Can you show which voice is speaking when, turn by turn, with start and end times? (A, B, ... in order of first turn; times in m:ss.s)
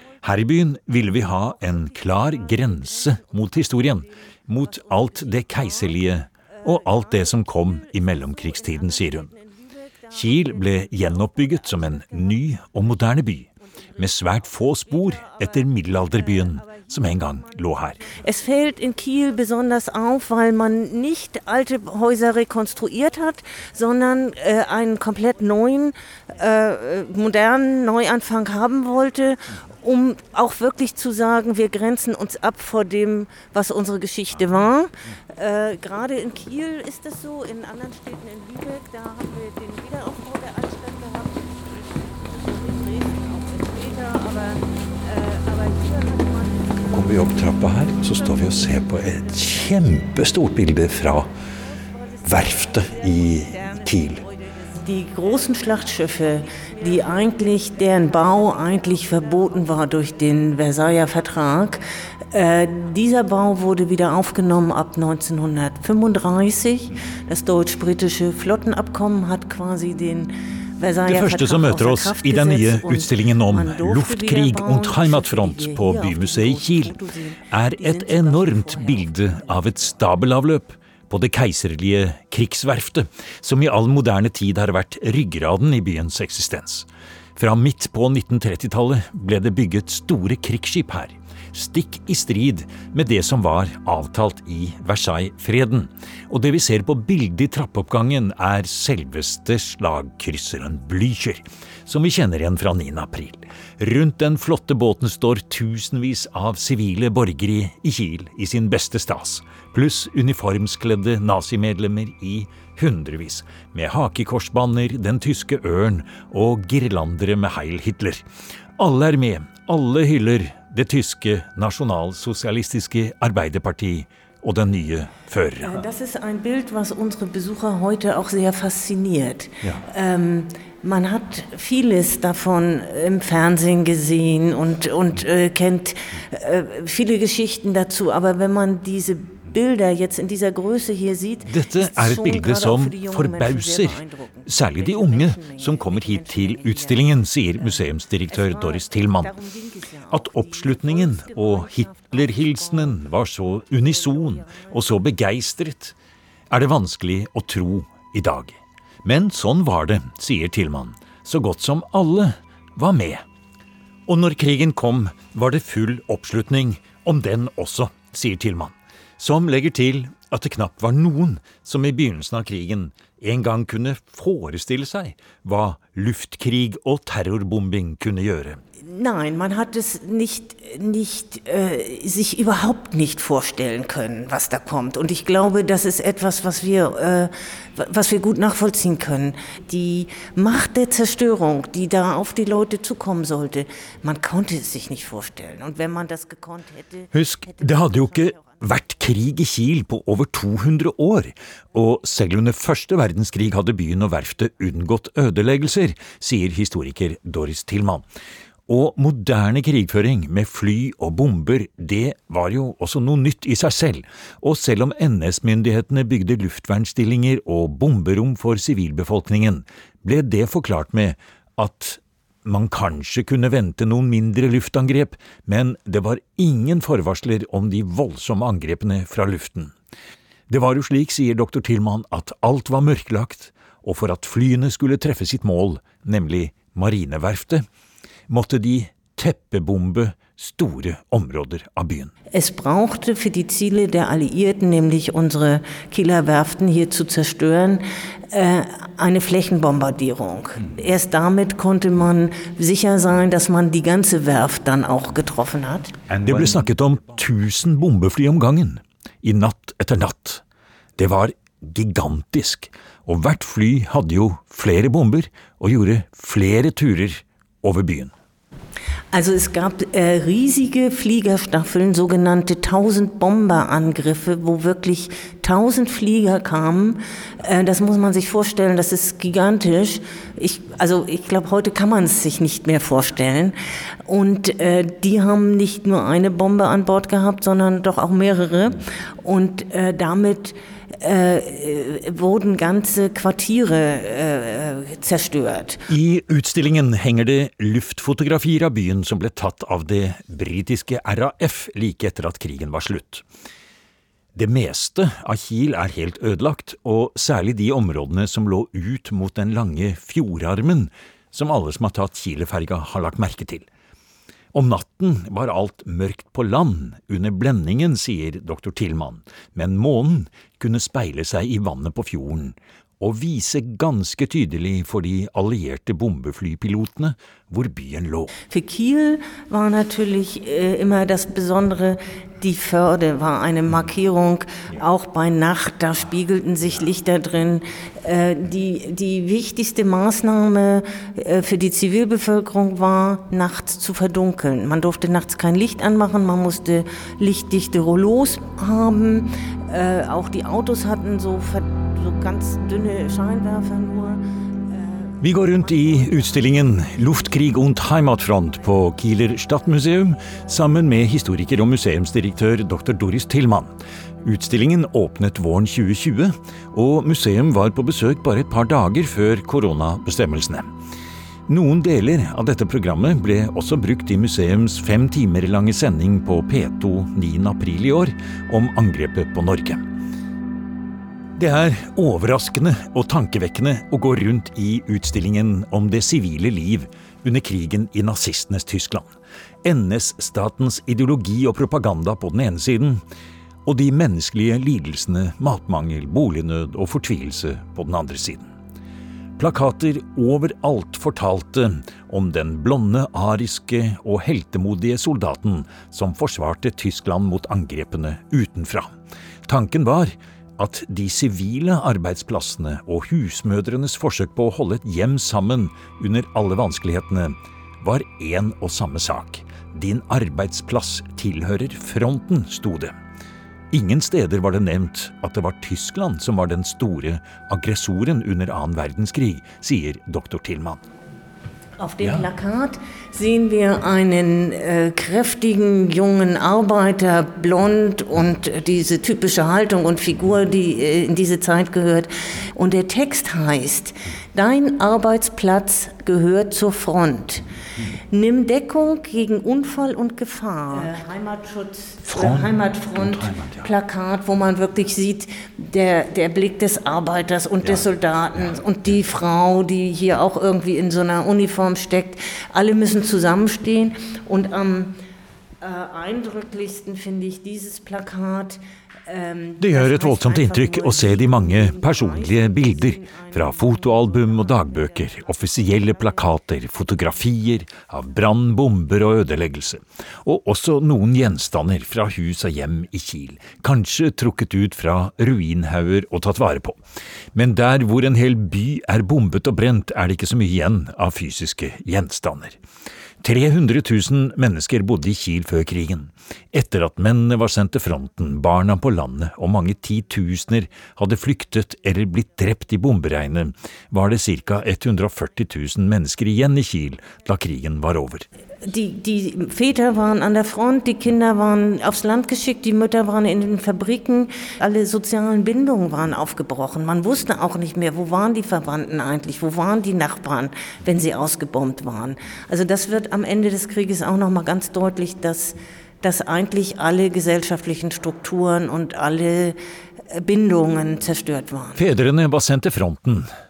0:00.2-0:09.3 A
0:01.5-0:04.0 B
0:04.6-0:11.5 B
0:10.1-0:18.1 A
0:18.0-0:47.3 B
0:46.9-0:51.3 A
0:48.2-0:48.6 B
0:51.8-1:19.1 B
0:52.2-0:54.2 A
1:11.1-1:17.0 A
1:17.5-1:58.2 A
1:58.8-2:05.8 A
2:05.6-2:33.0 B
2:21.4-2:29.3 A
2:30.1-2:36.0 A
2:33.8-2:34.8 B
2:36.5-2:43.2 A
2:44.1-2:58.6 A
2:58.8-3:18.6 B
3:17.1-3:28.0 A
3:28.7-3:49.7 A
3:50.5-3:57.6 A
3:58.3-4:02.1 A
4:02.3-4:16.0 B
4:16.1-4:20.4 A
4:21.0-4:28.1 A
4:29.1-4:55.9 B
4:55.9-5:03.2 A
5:04.3-5:13.6 A
5:14.5-5:28.3 A
5:28.5-5:57.0 B
5:55.2-6:10.7 A
6:11.5-6:19.8 A
6:21.4-6:29.1 A
6:29.6-6:33.0 A
6:33.6-6:38.5 A
6:39.4-6:48.9 A
6:49.4-7:03.0 A
7:03.7-7:10.8 A
7:11.8-7:27.4 B
7:12.0-7:12.2 A
7:28.1-7:45.0 B
7:32.0-7:33.7 A
7:45.6-7:56.1 B
7:49.6-8:06.8 A
8:07.3-8:12.6 A
8:13.2-8:28.3 A
8:28.6-8:49.6 B
8:50.1-8:51.8 B
8:51.8-8:53.3 A